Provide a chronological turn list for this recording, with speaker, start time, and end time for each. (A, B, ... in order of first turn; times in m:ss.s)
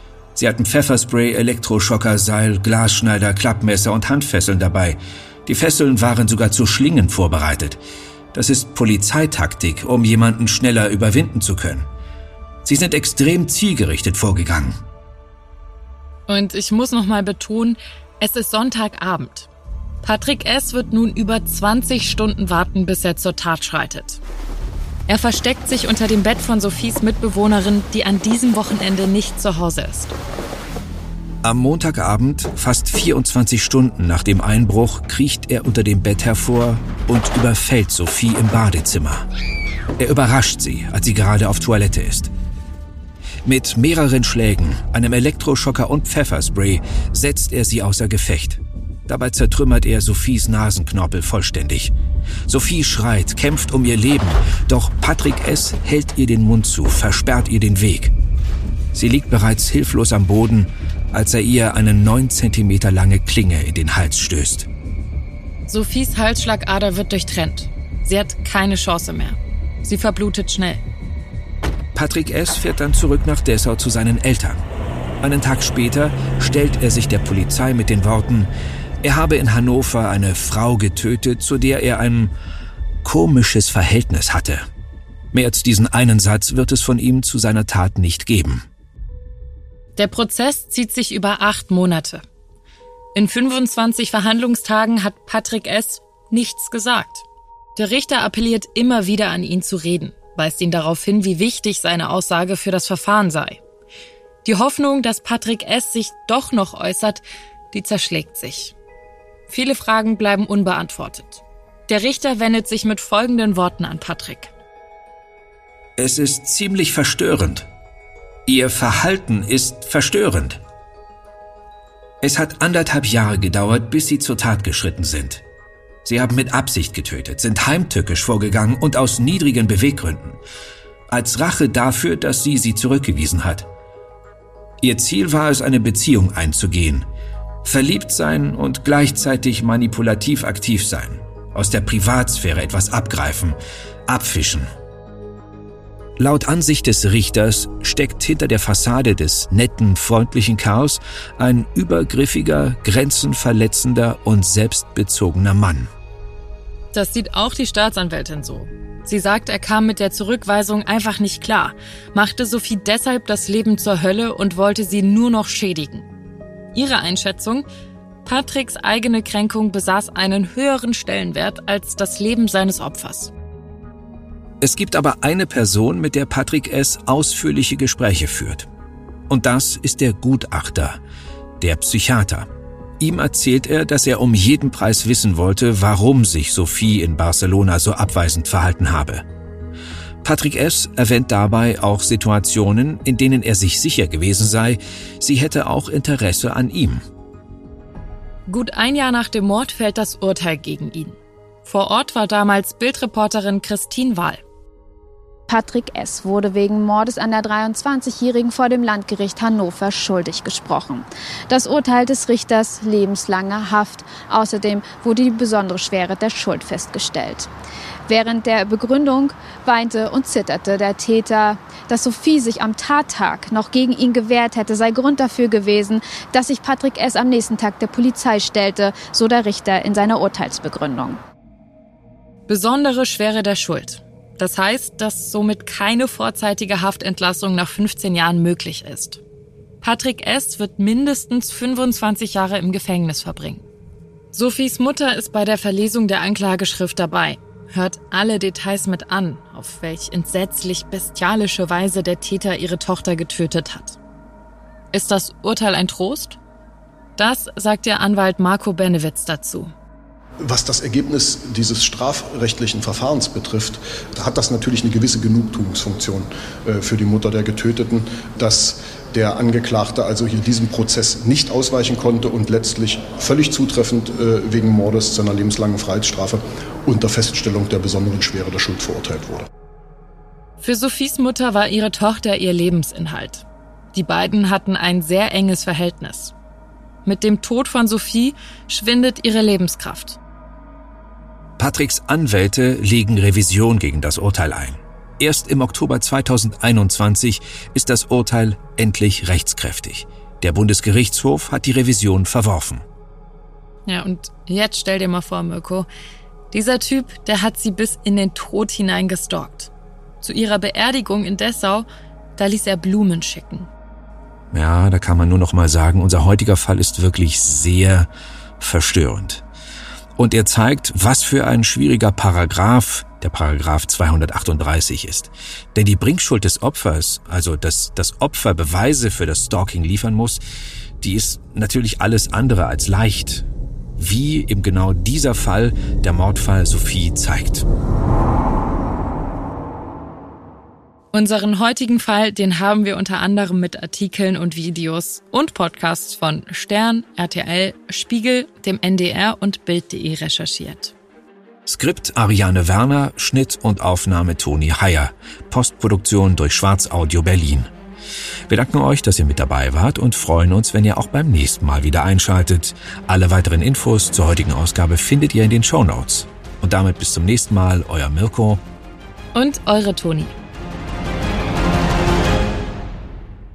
0:00.4-0:07.8 A
0:08.3-0:11.9 A
0:12.6-0:14.8 A
0:16.3-0:19.5 B
0:20.0-0:24.2 B
0:25.1-0:30.2 B
0:31.4-0:39.3 A
0:40.0-0:42.3 A
0:43.4-0:51.9 A
0:52.5-0:58.1 A
0:58.9-1:04.7 A
1:05.7-1:10.8 B
1:12.0-1:14.6 A
1:15.2-1:18.5 A
1:19.0-1:22.3 A
1:23.0-1:24.7 A
1:25.3-1:28.6 A
1:30.0-1:32.2 B
1:33.2-1:37.2 B
1:37.8-1:43.6 B
1:44.4-1:48.8 B
1:49.5-1:54.5 B
1:56.0-1:57.7 A
1:58.5-2:00.6 A
2:02.2-2:05.4 A
2:06.0-2:10.4 A
2:11.1-2:13.7 A
2:14.8-2:17.1 A
2:17.6-2:24.7 A
2:26.2-2:35.9 A
2:36.9-2:46.1 B
2:46.7-2:47.7 B
2:48.2-2:53.3 B
2:54.6-2:58.7 A
2:59.3-3:01.0 A
3:01.6-3:02.5 A
3:03.0-3:09.2 A
3:10.2-3:17.0 A
3:18.5-3:24.4 B
3:25.5-3:37.5 C
3:38.1-3:51.2 C
3:52.5-3:59.2 B
3:59.8-4:03.6 B
4:04.3-4:14.0 B
4:14.9-4:16.4 B
4:17.2-4:19.7 B
4:20.4-4:39.5 D
4:40.6-4:46.3 B
4:47.0-4:50.2 B
4:51.6-5:02.8 A
5:03.9-5:05.9 B
5:06.5-5:13.7 B
5:14.5-5:18.1 A
5:18.6-5:19.4 A
5:20.2-5:30.4 A
5:31.0-5:33.5 A
5:34.0-5:37.7 A
5:41.1-5:50.9 B
5:51.7-5:57.7 A
5:58.5-6:08.6 A
6:09.3-6:10.4 B